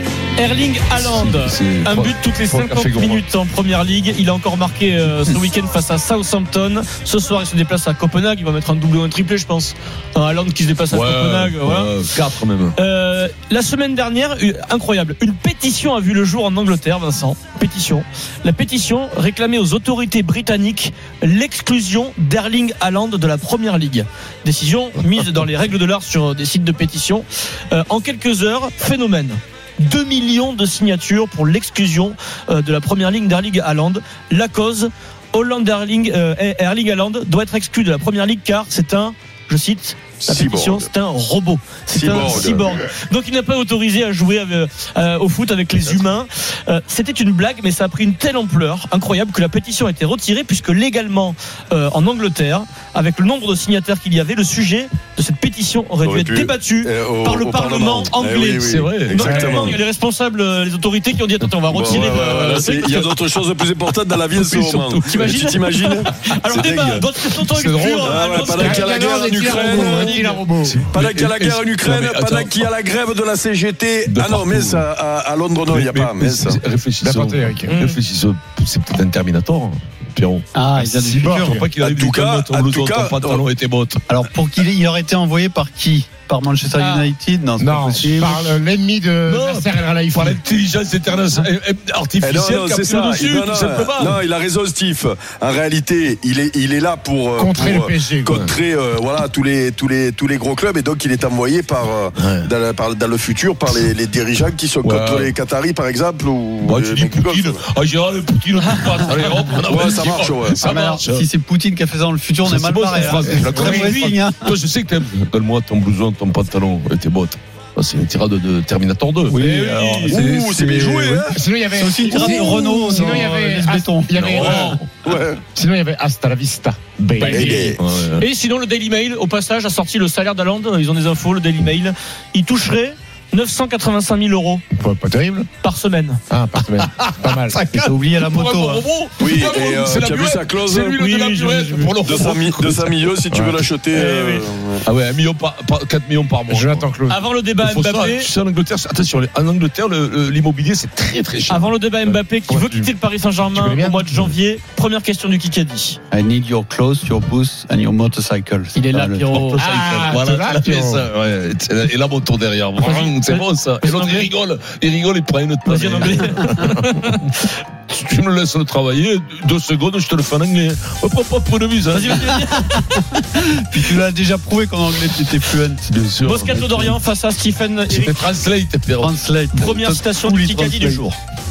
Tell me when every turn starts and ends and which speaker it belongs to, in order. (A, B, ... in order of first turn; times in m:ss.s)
0:00.4-0:11.9 A
0:01.0-0:03.2 B
0:10.9-0:12.8 B
0:12.8-1:03.0 A
0:40.2-0:40.9 C
0:41.9-0:42.8 C
0:56.0-0:59.8 C
0:58.6-0:59.3 B
0:59.2-0:59.6 D
1:01.7-1:07.0 C
1:01.8-1:02.1 B
1:02.8-1:03.2 B
1:04.3-1:05.4 B
1:05.0-1:10.4 A
1:07.5-1:08.8 B
1:08.0-1:16.6 C
1:08.5-1:10.8 D
1:10.5-1:12.7 B
1:14.1-1:14.9 B
1:15.7-1:24.0 B
1:17.0-1:17.7 D
1:17.7-1:18.0 A
1:20.6-1:21.6 E
1:21.2-1:21.7 D
1:21.8-1:23.4 C
1:24.1-1:28.6 E
1:26.8-1:27.1 A
1:27.6-1:30.4 D
1:29.2-1:34.2 B
1:32.2-1:47.6 C
1:37.4-1:38.5 D
1:42.2-1:42.5 B
1:44.8-1:45.3 B
1:46.6-1:51.3 B
1:49.6-1:50.7 C
1:50.6-1:54.6 E
1:52.4-2:00.3 B
1:53.4-1:54.0 D
1:59.3-2:04.6 E
2:00.1-2:01.4 C
2:01.3-2:04.8 D
2:02.1-2:03.0 C
2:04.1-2:04.9 B
2:04.4-2:05.4 C
2:05.5-2:07.7 D
2:07.2-2:08.2 B
2:07.2-2:07.8 C
2:08.2-2:14.6 A
2:14.7-2:15.5 D
2:15.6-2:16.2 A
2:16.3-2:17.8 D
2:16.7-2:23.1 B
2:17.7-2:18.8 E
2:19.2-2:21.0 C
2:20.9-2:22.0 A
2:22.0-2:24.8 C
2:23.3-2:23.6 D
2:23.9-2:24.5 A
2:24.9-2:26.9 B
2:26.5-2:27.2 D
2:27.1-2:28.3 A
2:27.6-2:32.2 B
2:31.5-2:36.0 A
2:32.5-2:32.9 D
2:33.5-2:34.3 D
2:36.1-2:39.4 E
2:38.8-2:39.7 A
2:39.3-2:47.0 B
2:39.6-2:41.0 D
2:42.8-2:44.3 A
2:45.6-2:47.3 A
2:47.9-2:52.4 B
2:51.9-2:53.1 A
2:53.1-2:55.9 E
2:55.9-2:57.0 B
2:56.2-2:58.2 A
2:57.9-2:59.1 B
2:59.0-3:01.1 E
2:59.5-3:01.2 A